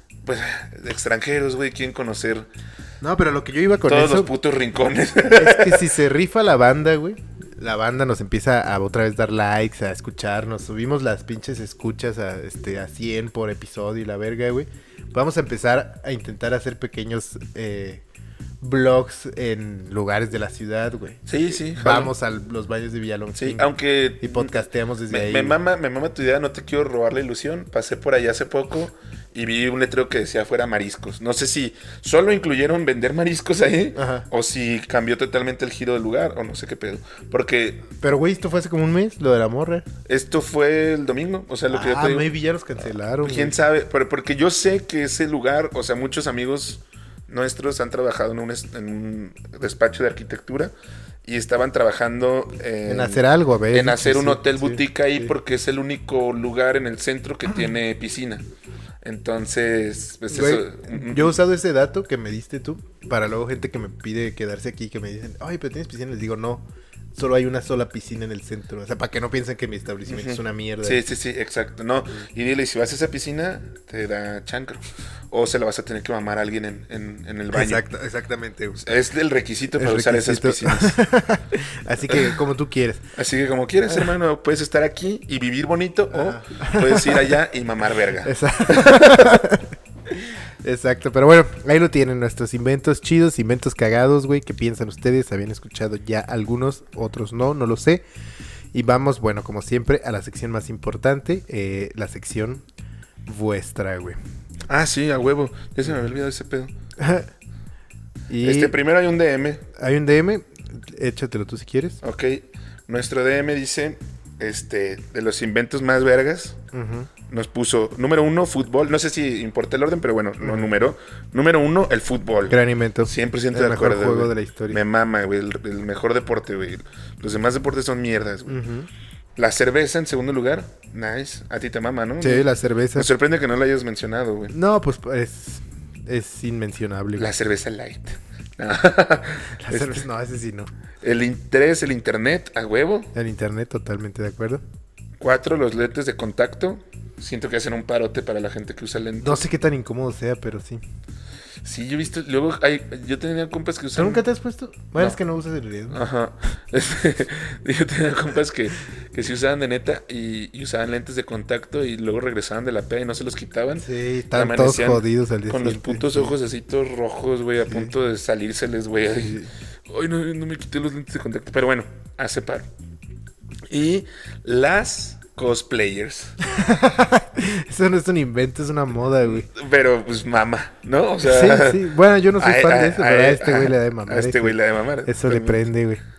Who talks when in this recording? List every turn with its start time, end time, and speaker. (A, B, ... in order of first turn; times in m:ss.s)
0:00.2-0:02.5 A
0:03.0-0:04.3 B
0:03.9-0:05.9 A
0:05.3-0:18.0 B
0:18.6-0:23.7 B
0:21.3-0:22.1 A
0:23.4-0:24.6 A
0:24.2-0:25.6 B
0:25.1-0:37.8 A
0:34.0-0:34.3 B
0:38.0-0:39.9 B
0:40.1-0:42.3 A
0:41.7-0:43.6 B
0:43.2-0:50.7 A
0:51.2-0:58.4 A
0:52.9-0:55.3 B
0:59.0-1:01.4 A
1:00.3-1:06.6 B
1:07.2-1:11.0 B
1:10.1-1:17.8 A
1:17.5-1:18.8 B
1:18.8-1:21.0 A
1:19.7-1:23.0 B
1:22.1-1:22.4 A
1:23.2-1:29.5 A
1:26.1-1:27.3 B
1:28.2-1:38.0 B
1:38.7-1:42.6 B
1:43.3-1:44.2 B
1:44.7-1:46.7 A
1:47.0-1:47.3 B
1:48.3-1:48.8 B
1:48.4-1:49.6 A
1:49.8-1:52.0 B
1:52.0-1:56.6 A
1:56.7-1:57.1 B
1:57.3-2:08.6 A
2:00.4-2:00.7 B
2:02.5-2:04.8 B
2:08.5-2:08.9 B
2:09.4-2:14.5 A
2:12.2-2:13.1 B
2:14.5-2:17.3 B
2:17.2-2:20.0 A
2:19.6-2:20.7 B
2:21.0-2:23.1 A
2:23.1-2:24.6 B
2:25.2-2:29.4 A
2:29.2-2:30.8 B
2:31.6-2:34.3 A
2:34.0-2:36.0 B
2:35.9-2:52.7 A
2:43.8-2:46.3 B
2:47.7-2:47.9 B
2:49.1-2:49.5 B
2:53.7-2:56.4 A
2:56.4-2:59.5 B
2:59.2-3:01.9 A
3:01.2-3:06.0 B
3:02.4-3:05.6 A